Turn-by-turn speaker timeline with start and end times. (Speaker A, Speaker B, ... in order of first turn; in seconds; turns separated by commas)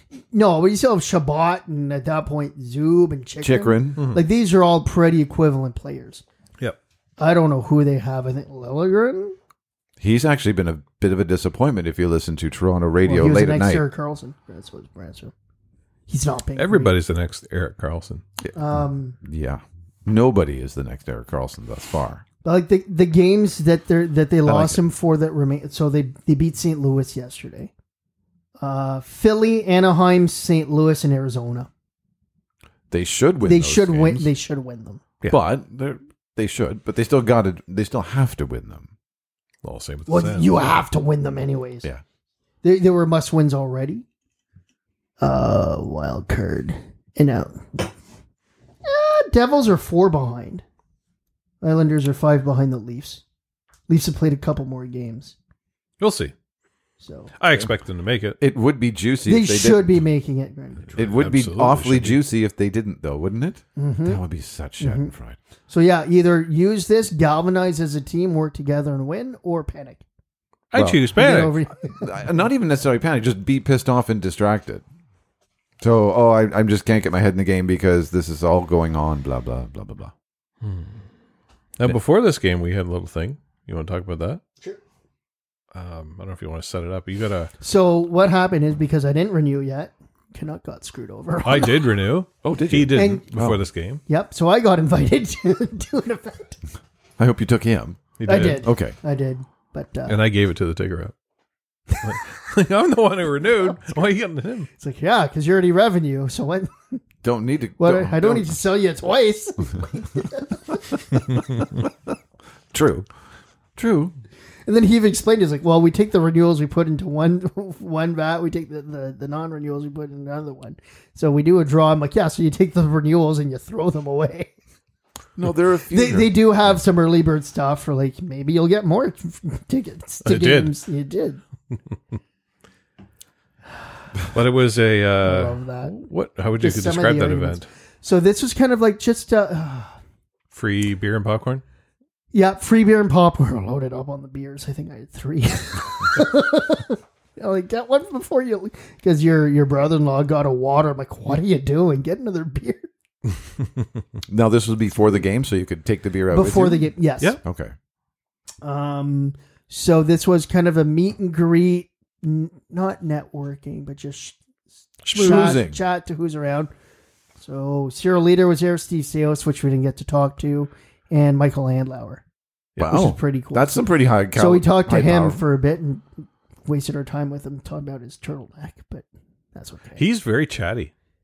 Speaker A: 0.3-6.2, Speaker B: 3.4-4.0, Speaker C: 4.0-4.2, Speaker A: 7.2-9.3, Speaker B: 10.0-13.8, Speaker A: 13.1-15.3, Speaker A: 16.1-16.9, Speaker C: 16.6-18.2, Speaker B: 18.4-22.2, Speaker A: 18.5-19.2, Speaker A: 22.4-27.7, Speaker B: 24.5-24.8, Speaker A: 28.6-31.7, Speaker B: 32.9-34.3, Speaker A: 33.5-35.0, Speaker B: 35.3-38.9, Speaker C: 39.6-40.5, Speaker A: 40.1-41.9, Speaker A: 42.6-44.0, Speaker A: 45.2-47.9, Speaker A: 48.8-50.6, Speaker A: 51.6-53.2, Speaker A: 53.9-55.4, Speaker C: 56.0-56.3, Speaker A: 57.0-57.3, Speaker C: 57.4-58.4, Speaker B: 58.4-60.0, Speaker A: 59.3-61.0, Speaker C: 60.9-62.2, Speaker B: 61.0-65.4, Speaker A: 63.8-64.2, Speaker A: 64.8-65.1, Speaker A: 65.7-70.0, Speaker C: 70.7-71.6, Speaker B: 70.8-71.0, Speaker A: 71.2-72.2, Speaker B: 72.0-74.8, Speaker B: 75.8-80.1, Speaker C: 80.6-80.9, Speaker C: 81.8-84.4, Speaker C: 85.7-87.5, Speaker A: 87.6-91.8, Speaker C: 91.4-94.0, Speaker B: 92.4-93.6, Speaker A: 93.0-93.2, Speaker A: 94.1-96.6, Speaker B: 97.2-99.0, Speaker C: 98.2-98.6, Speaker A: 98.2-100.2, Speaker C: 100.1-101.1, Speaker C: 102.0-104.7, Speaker A: 104.8-107.0, Speaker B: 107.2-108.6, Speaker A: 107.8-111.2, Speaker B: 112.7-113.1, Speaker B: 113.8-114.2, Speaker A: 114.7-124.5, Speaker B: 125.4-126.4, Speaker A: 125.9-131.4, Speaker C: 130.2-130.7, Speaker C: 134.3-137.7, Speaker A: 135.2-135.9, Speaker A: 136.6-139.9, Speaker C: 140.5-141.6, Speaker A: 142.3-152.9, Speaker B: 154.3-156.9, Speaker A: 156.3-157.4, Speaker B: 157.4-157.8, Speaker A: 158.6-164.4, Speaker B: 165.0-165.8, Speaker A: 165.1-166.7, Speaker A: 167.4-172.2, Speaker B: 172.8-175.4, Speaker A: 172.9-176.1, Speaker A: 176.7-180.0, Speaker C: 180.0-180.9